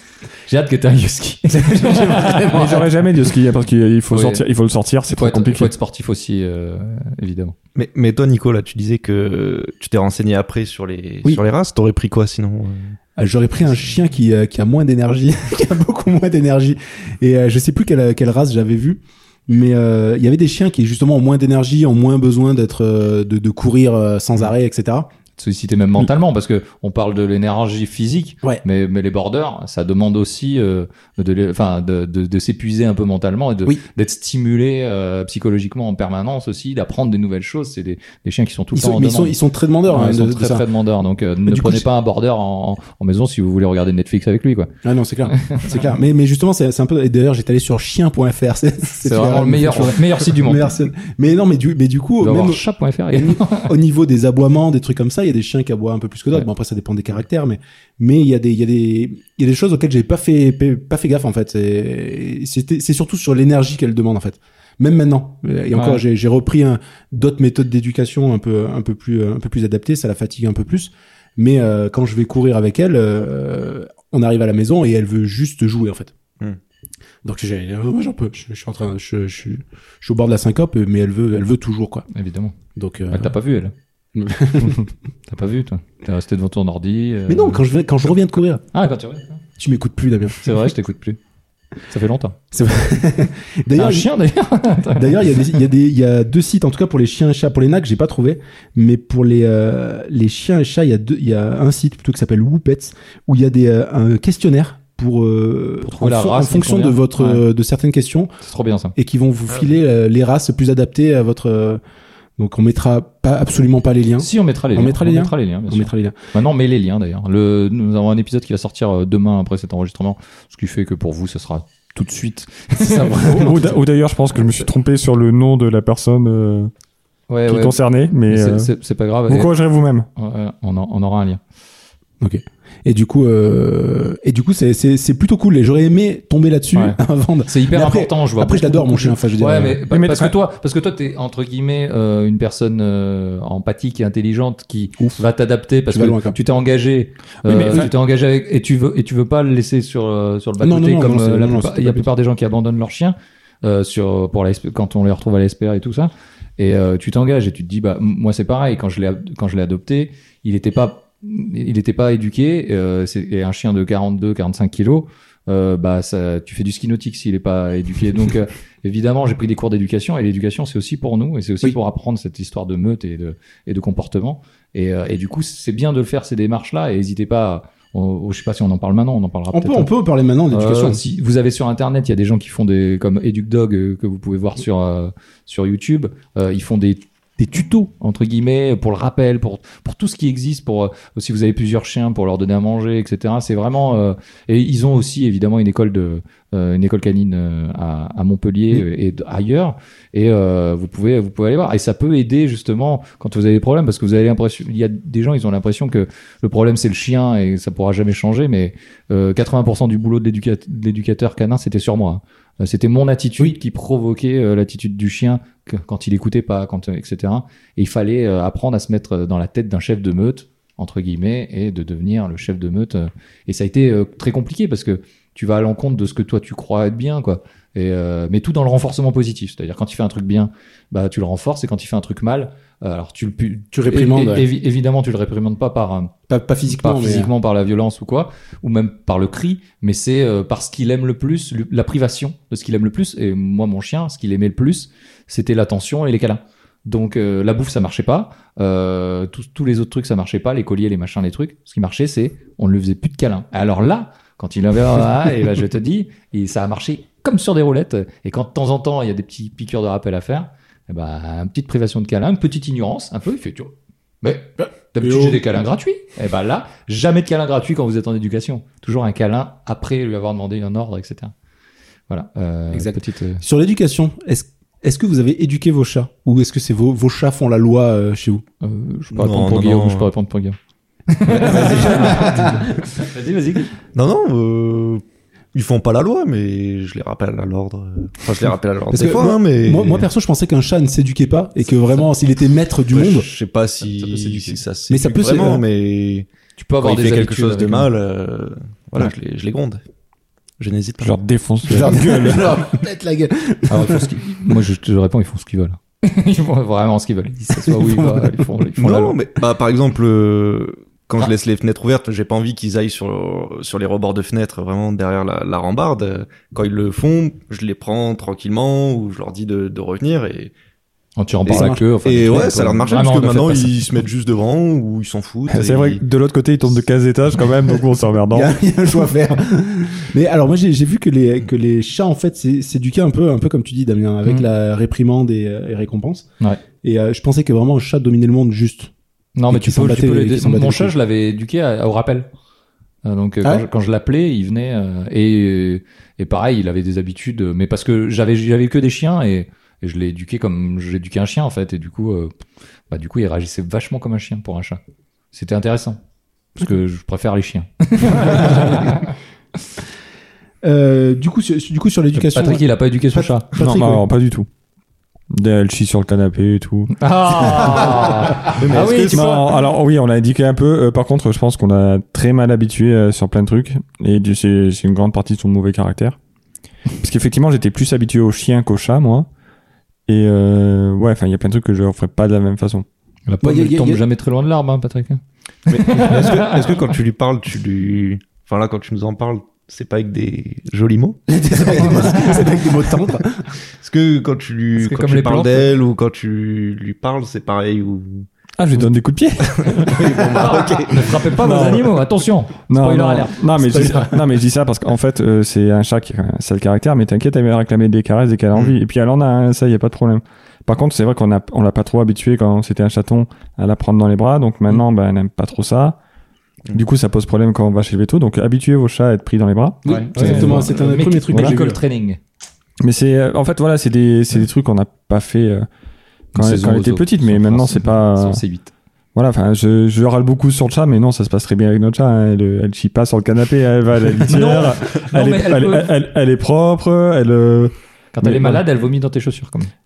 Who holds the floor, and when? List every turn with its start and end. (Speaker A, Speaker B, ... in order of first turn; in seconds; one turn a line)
Speaker A: 0.5-2.9
Speaker B: 1.5-2.8
Speaker C: 2.2-5.7
Speaker A: 4.1-4.4
Speaker A: 5.1-7.5
Speaker D: 7.8-12.9
Speaker B: 13.2-25.1
Speaker A: 25.4-39.4
Speaker B: 38.7-40.6
Speaker A: 39.9-44.7
Speaker B: 41.5-41.9
Speaker B: 44.8-76.1
Speaker A: 45.3-45.8
Speaker A: 49.0-50.8
Speaker A: 52.2-53.7
Speaker A: 65.7-66.0
Speaker B: 77.2-82.1
Speaker A: 82.1-82.6
Speaker B: 82.8-83.3
Speaker A: 83.1-83.7
Speaker B: 84.2-84.8
Speaker A: 84.6-87.6
Speaker B: 87.3-88.6
Speaker A: 88.7-89.4
Speaker B: 89.6-90.5
Speaker A: 90.4-91.2
Speaker A: 91.9-92.4
Speaker B: 92.5-94.1
Speaker A: 93.8-95.4
Speaker B: 95.0-108.3
Speaker A: 105.8-107.5
Speaker A: 108.5-109.0
Speaker B: 109.0-111.8
Speaker B: 112.4-116.2
Speaker A: 114.2-123.5
Speaker B: 122.8-123.8
Speaker C: 123.2-126.7
Speaker A: 127.3-127.8
Speaker C: 127.5-128.7
Speaker A: 128.3-129.5
Speaker C: 129.3-130.1
Speaker A: 130.2-131.4
Speaker B: 132.2-139.8
Speaker A: 136.7-179.9
Speaker C: 139.9-140.3
Speaker B: 145.9-146.4
Speaker C: 147.4-147.9
Speaker B: 150.6-152.1
Speaker B: 179.5-181.0
Speaker A: 180.5-236.1
Speaker B: 233.7-234.5
Speaker B: 236.3-237.3
Speaker A: 236.8-271.3
Speaker B: 264.6-265.6
Speaker A: 272.1-273.4
Speaker B: 272.7-278.4
Speaker A: 278.6-280.6
Speaker D: 279.1-280.1
Speaker A: 281.1-283.7
Speaker B: 281.3-282.8
Speaker D: 281.4-282.3
Speaker D: 283.9-290.1
Speaker B: 288.9-293.3
Speaker D: 292.9-296.3
Speaker A: 293.8-294.6
Speaker B: 294.9-295.6
Speaker A: 296.6-297.9
Speaker D: 296.8-299.8
Speaker D: 300.6-301.2
Speaker C: 301.0-302.6
Speaker B: 301.7-304.1
Speaker D: 301.7-302.2
Speaker A: 303.7-309.2
Speaker B: 307.5-308.5
Speaker D: 308.8-320.5
Speaker A: 321.2-323.8
Speaker B: 321.5-322.6
Speaker D: 321.5-326.0
Speaker C: 325.5-328.5
Speaker B: 328.3-336.3
Speaker B: 336.8-338.9
Speaker A: 339.4-342.3
Speaker B: 339.5-340.9
Speaker A: 343.1-352.3
Speaker A: 352.9-354.8
Speaker A: 355.3-356.0
Speaker A: 356.6-359.1
Speaker B: 358.3-358.6
Speaker B: 360.6-364.0
Speaker A: 362.1-363.5
Speaker C: 363.6-364.5
Speaker C: 365.3-368.0
Speaker A: 367.0-369.5
Speaker D: 368.4-369.5
Speaker C: 368.8-376.2
Speaker C: 377.0-379.3
Speaker C: 380.1-382.9
Speaker A: 383.3-386.7
Speaker B: 383.4-384.0
Speaker D: 385.7-392.7
Speaker B: 391.3-393.5
Speaker A: 391.9-392.3
Speaker D: 393.8-398.3
Speaker A: 394.8-395.7
Speaker C: 398.6-400.1
Speaker D: 399.4-401.5
Speaker A: 400.2-404.2
Speaker C: 401.4-401.9
Speaker C: 402.7-416.0
Speaker B: 403.8-404.1
Speaker C: 416.7-420.7
Speaker B: 419.8-421.8
Speaker A: 419.9-422.2
Speaker C: 422.8-425.7
Speaker C: 426.4-428.4
Speaker A: 426.4-428.7
Speaker C: 429.1-438.6
Speaker A: 434.3-435.9
Speaker A: 438.1-439.7